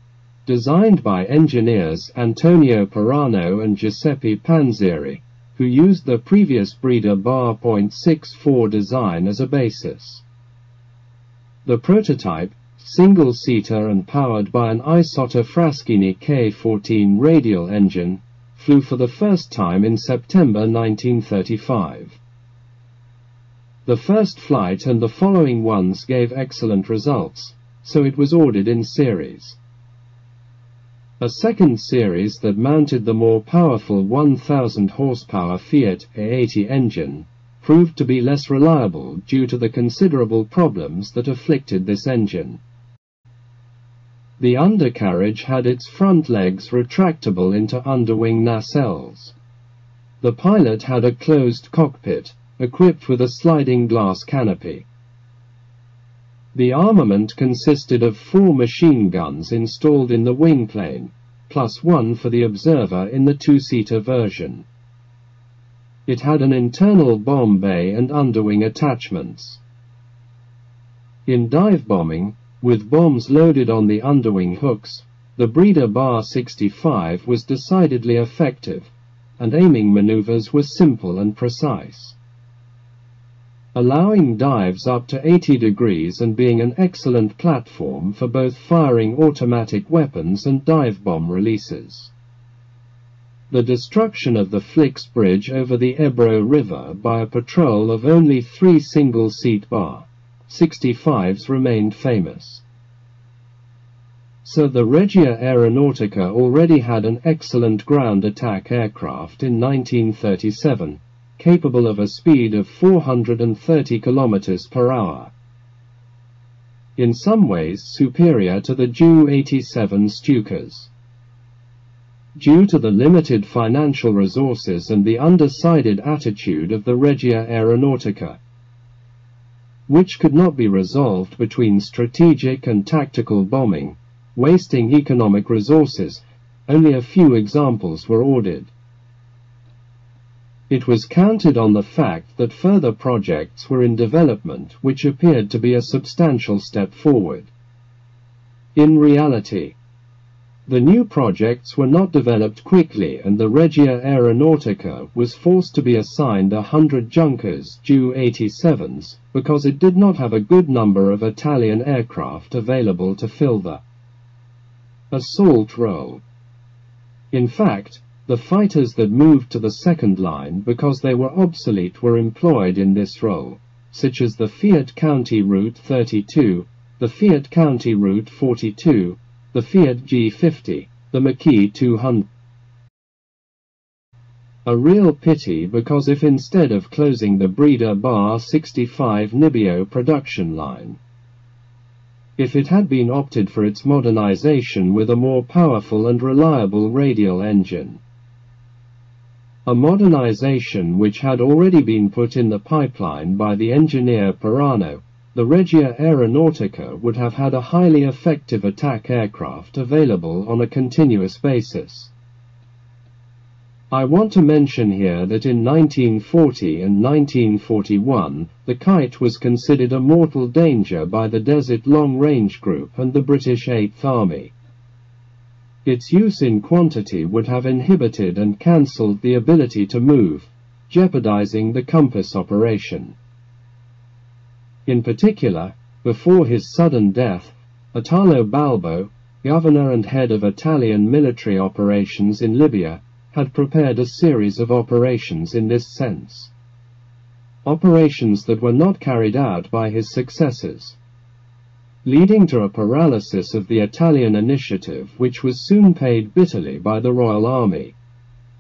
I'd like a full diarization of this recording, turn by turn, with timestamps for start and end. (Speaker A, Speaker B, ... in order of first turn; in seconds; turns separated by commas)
Speaker A: 0.5-10.2, Speaker A: 11.6-22.2, Speaker A: 23.9-29.6, Speaker A: 31.2-42.6, Speaker A: 44.4-49.4, Speaker A: 50.2-54.9, Speaker A: 56.5-64.7, Speaker A: 66.0-69.6, Speaker A: 71.2-82.2, Speaker A: 83.7-92.1, Speaker A: 93.5-102.6, Speaker A: 104.4-115.3, Speaker A: 117.0-120.9, Speaker A: 122.3-128.4, Speaker A: 129.9-138.7, Speaker A: 140.7-147.5, Speaker A: 148.7-149.8, Speaker A: 150.7-163.8, Speaker A: 165.1-166.2, Speaker A: 167.3-182.3, Speaker A: 184.7-191.0, Speaker A: 192.4-198.0, Speaker A: 199.7-212.1, Speaker A: 213.9-224.5, Speaker A: 225.8-233.2, Speaker A: 234.8-246.5, Speaker A: 247.6-251.0, Speaker A: 252.0-257.9